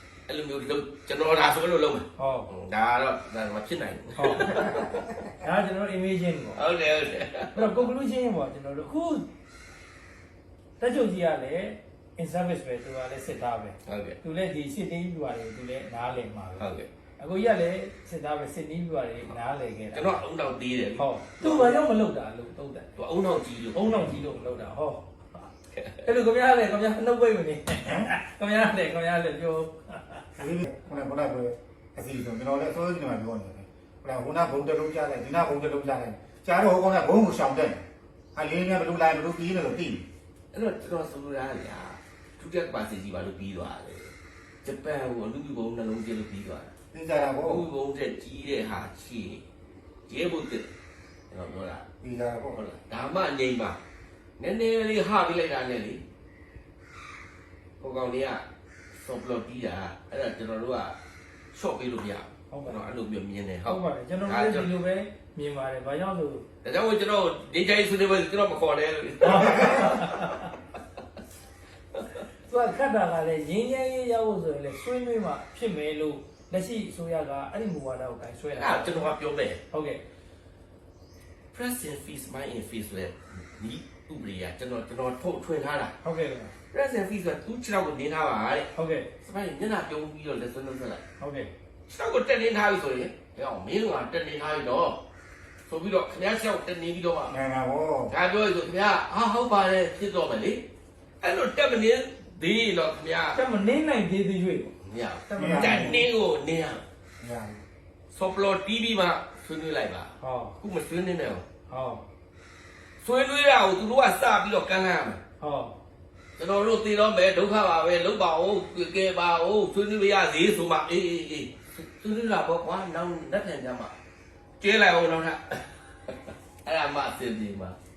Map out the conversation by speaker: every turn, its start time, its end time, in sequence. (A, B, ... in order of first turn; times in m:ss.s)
0:00.3-0:05.2 A
0:02.2-0:02.5 B
0:04.2-0:04.8 B
0:05.3-0:06.6 B
0:06.5-0:07.9 A
0:07.5-0:09.3 B
0:10.8-0:16.6 B
0:13.8-0:14.2 A
0:16.6-0:16.9 A
0:17.2-0:20.2 B
0:19.9-0:21.8 A
0:21.0-0:22.9 B
0:23.0-0:24.1 A
0:23.7-0:25.1 B
0:25.7-0:26.0 A
0:26.0-0:30.4 B
0:30.4-0:37.8 C
0:38.3-0:40.0 C
0:40.5-0:44.1 A
0:44.6-0:46.7 A
0:46.9-0:47.6 C
0:47.4-0:49.4 A
0:50.1-0:50.7 A
0:51.3-0:51.8 A
0:52.0-0:52.6 C
0:52.5-0:53.8 A
0:54.4-0:56.0 A
0:57.8-1:01.0 A
1:01.5-1:04.7 A
1:02.5-1:02.8 B
1:03.6-1:06.5 B
1:06.6-1:10.5 A
1:09.2-1:10.5 B
1:12.4-1:19.1 B
1:18.6-1:19.6 A
1:19.7-1:20.0 B
1:21.5-1:25.9 A
1:26.0-1:26.5 B
1:26.7-1:28.7 A
1:28.7-1:29.1 B
1:29.2-1:31.0 A
1:31.2-1:31.5 B
1:31.9-1:35.0 A
1:35.7-1:37.4 A
1:37.3-1:38.1 C
1:38.1-1:40.6 A
1:41.2-1:43.4 A
1:43.3-1:44.8 B
1:44.8-1:46.8 A
1:45.3-1:46.0 B
1:45.4-1:46.0 C
1:47.2-1:47.6 C
1:48.1-1:51.4 A
1:50.2-1:50.6 B
1:51.7-1:52.0 B
1:53.0-1:55.2 A
1:55.4-1:55.8 B
1:56.4-2:03.9 A
2:04.6-2:07.8 A